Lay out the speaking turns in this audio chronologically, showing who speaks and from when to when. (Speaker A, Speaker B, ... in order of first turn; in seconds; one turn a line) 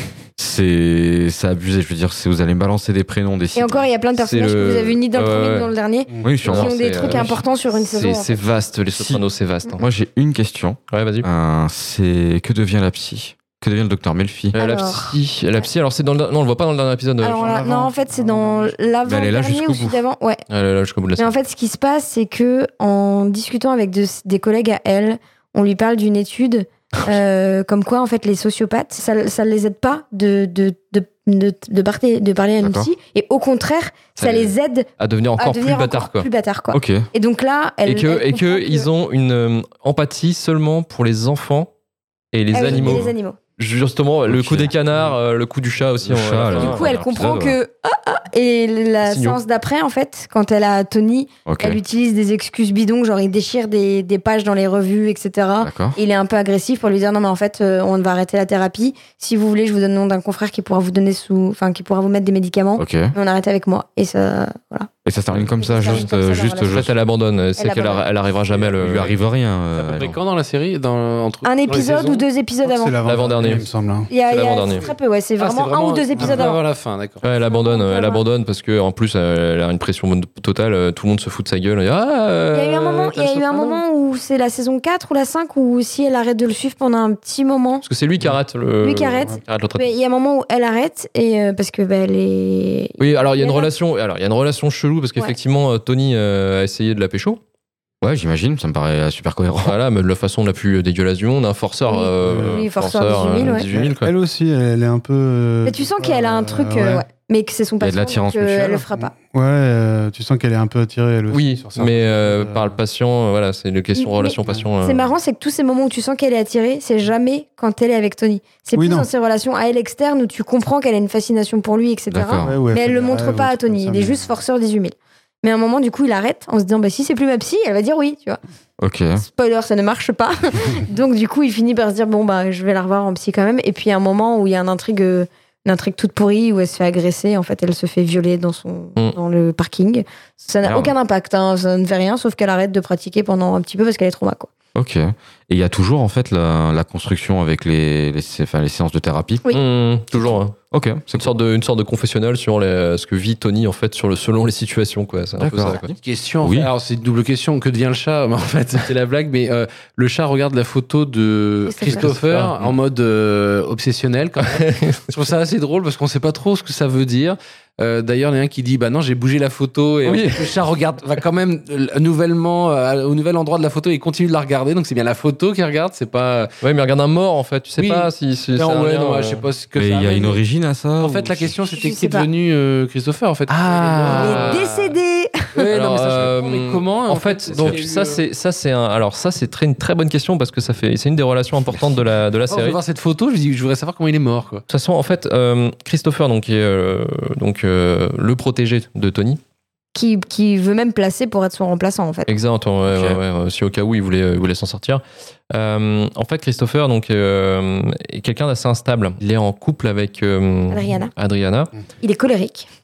Speaker A: 0.4-3.8
Speaker B: 3.5-8.4
Speaker C: 4.2-5.7
Speaker D: 6.1-6.4
Speaker A: 6.2-7.3
Speaker C: 6.5-9.8
Speaker A: 8.9-9.2
Speaker A: 9.8-14.5
Speaker C: 10.9-11.3
Speaker C: 14.5-17.9
Speaker B: 14.6-15.2
Speaker B: 17.2-20.4
Speaker D: 17.3-18.8
Speaker A: 19.1-20.0
Speaker C: 20.5-21.4
Speaker B: 21.2-38.9
Speaker A: 32.6-32.9
Speaker C: 34.2-36.3
Speaker A: 36.7-37.1
Speaker C: 37.9-41.7
Speaker C: 42.3-47.1
Speaker B: 42.5-43.4
Speaker A: 42.7-43.1
Speaker A: 44.3-44.7
Speaker A: 46.0-47.6
Speaker B: 46.5-64.9
Speaker C: 49.0-49.4
Speaker A: 51.5-51.8
Speaker A: 55.6-56.0
Speaker A: 62.8-63.1
Speaker A: 65.0-66.9
Speaker B: 65.6-66.9
Speaker C: 66.7-69.2
Speaker B: 67.6-68.0
Speaker A: 68.8-70.1
Speaker E: 69.8-72.2
Speaker B: 71.4-73.0
Speaker D: 72.6-74.1
Speaker C: 73.0-73.6
Speaker B: 74.1-76.6
Speaker C: 74.2-74.8
Speaker E: 74.8-77.2
Speaker D: 76.2-76.4
Speaker C: 77.2-83.8
Speaker B: 77.4-78.2
Speaker B: 82.5-87.8
Speaker C: 87.8-89.9
Speaker B: 88.8-93.7
Speaker C: 93.0-97.4
Speaker A: 98.0-99.8
Speaker C: 99.6-104.1
Speaker B: 101.9-103.7
Speaker D: 102.2-102.5
Speaker D: 103.5-107.0
Speaker B: 105.7-109.1
Speaker A: 107.8-108.8
Speaker D: 108.7-112.8
Speaker C: 111.3-115.1
Speaker B: 114.0-128.4
Speaker D: 118.8-119.1
Speaker A: 122.1-122.6
Speaker D: 122.4-124.3
Speaker A: 128.8-129.2
Speaker B: 129.2-144.5
Speaker A: 140.6-140.9
Speaker A: 144.8-149.4
Speaker C: 149.5-150.6
Speaker A: 150.7-151.3
Speaker C: 151.2-155.9
Speaker A: 155.4-156.7
Speaker E: 156.0-176.5
Speaker B: 161.7-162.1
Speaker C: 161.9-162.5
Speaker C: 164.5-165.0
Speaker C: 170.1-170.5
Speaker C: 176.6-179.4
Speaker E: 177.8-180.4
Speaker A: 179.8-181.6
Speaker E: 181.0-184.7
Speaker B: 181.7-182.3
Speaker C: 183.5-184.7
Speaker B: 184.1-185.7
Speaker E: 185.6-188.2
Speaker C: 185.7-192.8
Speaker A: 187.5-187.8
Speaker E: 192.5-194.6
Speaker C: 194.7-199.4
Speaker B: 199.9-202.3
Speaker C: 202.3-211.7
Speaker A: 202.9-203.2
Speaker B: 210.7-211.1
Speaker B: 212.0-212.7